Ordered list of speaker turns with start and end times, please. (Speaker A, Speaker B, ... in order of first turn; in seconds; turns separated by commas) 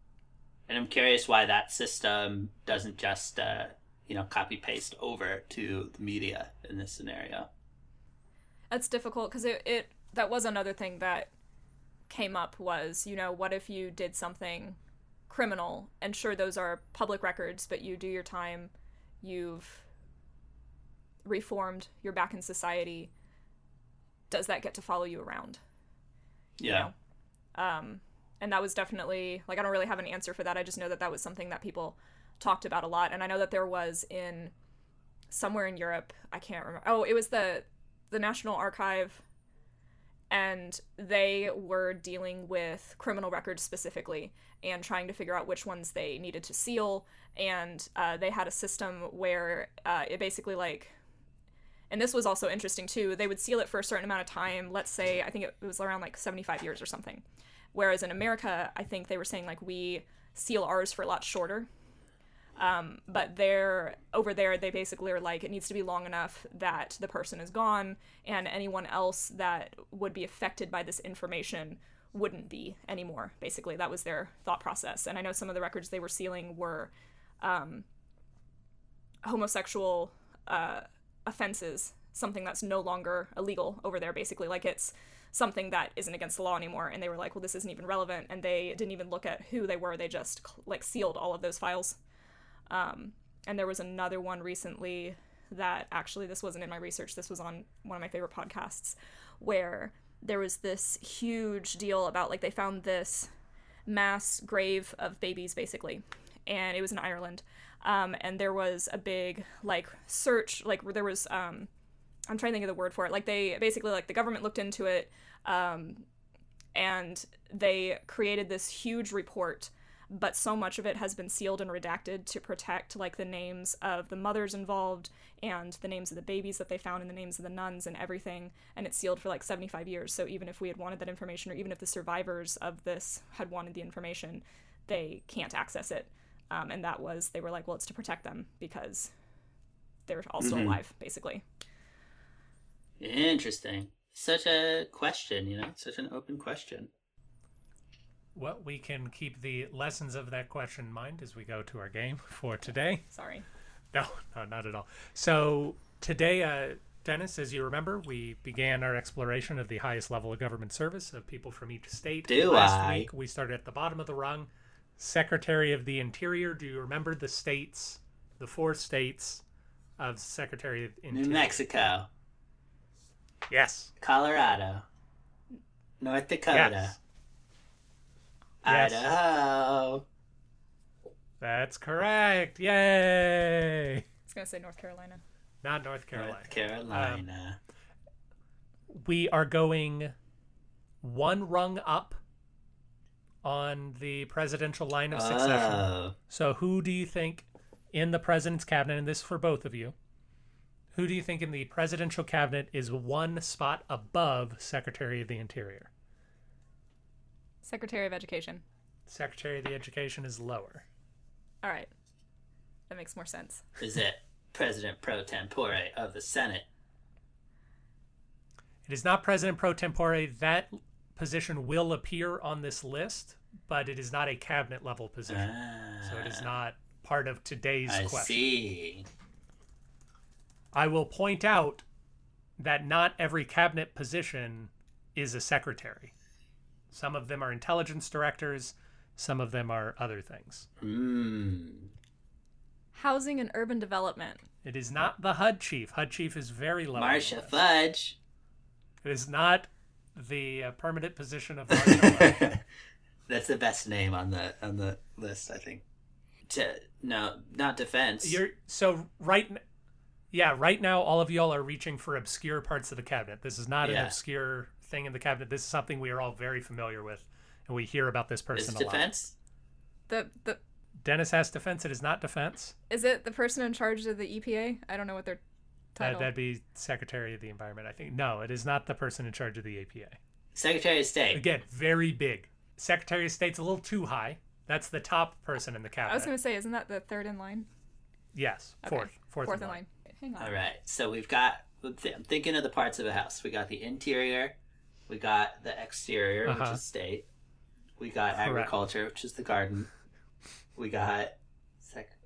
Speaker A: 0.7-7.5, Speaker B: 8.7-11.3, Speaker B: 12.1-14.8, Speaker B: 15.3-19.8, Speaker B: 21.2-23.1, Speaker B: 24.3-25.6, Speaker A: 26.6-26.9, Speaker B: 26.6-26.9, Speaker B: 27.5-34.5, Speaker B: 35.3-39.2, Speaker B: 40.3-50.9, Speaker B: 51.9-61.7, Speaker B: 62.5-77.8, Speaker B: 79.2-92.0, Speaker B: 92.7-103.3, Speaker B: 103.8-111.7, Speaker B: 112.3-116.0, Speaker B: 116.7-139.1, Speaker B: 140.1-141.4, Speaker A: 140.4-140.8, Speaker A: 143.0-146.9, Speaker C: 148.3-153.1, Speaker B: 153.1-153.4, Speaker C: 153.9-169.4, Speaker A: 162.3-163.1, Speaker C: 170.0-171.8, Speaker A: 171.1-172.1, Speaker C: 173.5-173.9, Speaker A: 174.0-174.8, Speaker A: 176.0-176.9, Speaker C: 176.5-176.9, Speaker A: 178.6-180.0, Speaker C: 178.7-179.1, Speaker C: 181.4-184.0, Speaker B: 184.3-185.2, Speaker C: 185.6-187.2, Speaker A: 186.1-187.6, Speaker C: 188.9-190.1, Speaker C: 191.0-192.2, Speaker C: 193.4-199.9, Speaker A: 195.1-196.1, Speaker C: 200.9-205.9, Speaker B: 207.6-208.6, Speaker C: 209.1-210.8, Speaker B: 211.6-211.9, Speaker B: 212.9-213.6, Speaker A: 213.8-216.7, Speaker C: 218.9-225.5, Speaker A: 225.3-226.5, Speaker C: 226.0-228.4, Speaker A: 227.8-229.1, Speaker C: 230.7-231.8, Speaker C: 232.6-236.1, Speaker C: 236.9-240.7, Speaker A: 240.8-241.9, Speaker B: 242.9-244.4, Speaker C: 244.6-247.6, Speaker A: 246.9-248.2, Speaker C: 249.0-252.5, Speaker A: 251.7-252.6, Speaker A: 253.3-255.8, Speaker A: 256.5-258.4, Speaker C: 258.2-259.6, Speaker C: 260.3-269.1, Speaker A: 263.8-264.1, Speaker A: 268.5-269.3, Speaker B: 270.1-270.6, Speaker C: 271.0-272.8, Speaker B: 272.9-275.4, Speaker B: 275.9-276.3, Speaker C: 276.0-280.2, Speaker A: 280.5-281.4, Speaker C: 281.3-286.3, Speaker B: 286.1-287.7, Speaker C: 288.3-289.8, Speaker B: 288.8-290.5, Speaker A: 290.4-294.5, Speaker A: 295.1-297.2, Speaker C: 296.4-296.8, Speaker A: 298.0-299.9, Speaker C: 298.4-298.7, Speaker A: 300.8-302.1